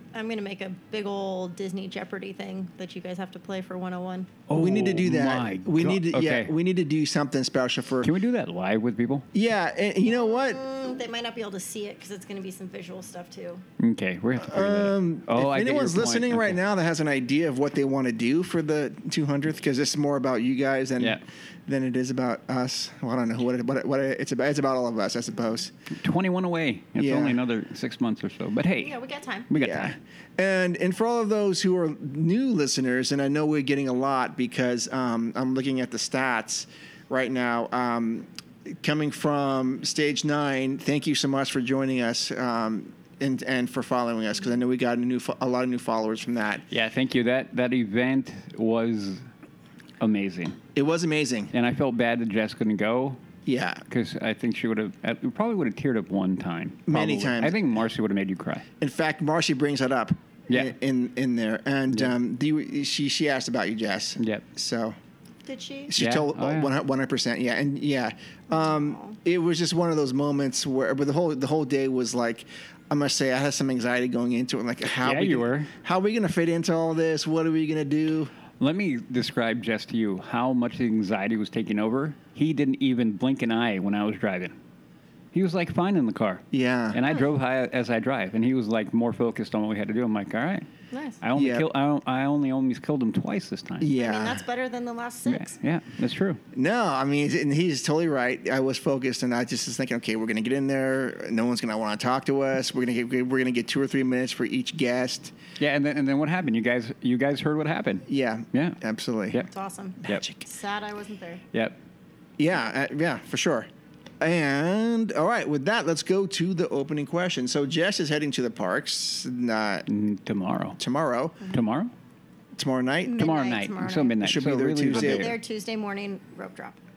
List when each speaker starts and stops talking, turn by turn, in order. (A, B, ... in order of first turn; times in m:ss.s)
0:00.1-0:04.3 A
0:04.5-0:06.5 B
0:04.5-0:08.1 C
0:08.0-0:09.2 B
0:09.3-0:10.6 C
0:10.0-0:13.6 A
0:13.8-0:16.6 B
0:14.4-0:25.7 C
0:26.0-0:28.9 B
0:27.0-0:27.4 C
0:28.8-0:29.5 A
0:29.5-0:30.0 B
0:29.6-0:46.6 C
0:46.7-0:49.3 B
0:50.0-0:50.6 B
0:50.7-0:51.5 C
0:51.5-0:53.2 B
0:53.4-0:53.8 C
0:53.9-0:58.6 B
0:56.9-0:57.8 C
0:58.8-1:05.0 C
1:04.2-1:04.4 B
1:05.4-1:05.9 A
1:05.9-1:18.3 C
1:06.0-1:06.7 B
1:08.5-1:09.2 A
1:15.0-1:15.7 B
1:18.6-1:24.6 B
1:25.3-1:30.7 B
1:26.5-1:27.0 C
1:30.9-1:31.2 A
1:31.2-1:33.9 B
1:31.3-1:31.7 C
1:33.8-1:34.4 C
1:34.0-1:35.5 A
1:35.2-1:36.4 B
1:36.5-1:45.3 C
1:45.6-1:48.8 B
1:48.1-1:49.4 C
1:49.5-1:51.4 A
1:50.0-1:50.4 C
1:52.4-1:53.7 C
1:54.2-1:59.9 C
1:59.9-2:00.8 B
2:00.8-2:01.4 C
2:01.5-2:01.9 B
2:02.6-2:03.3 C
2:03.0-2:04.2 A
2:03.2-2:05.3 B
2:04.2-2:05.3 C
2:04.9-2:06.8 A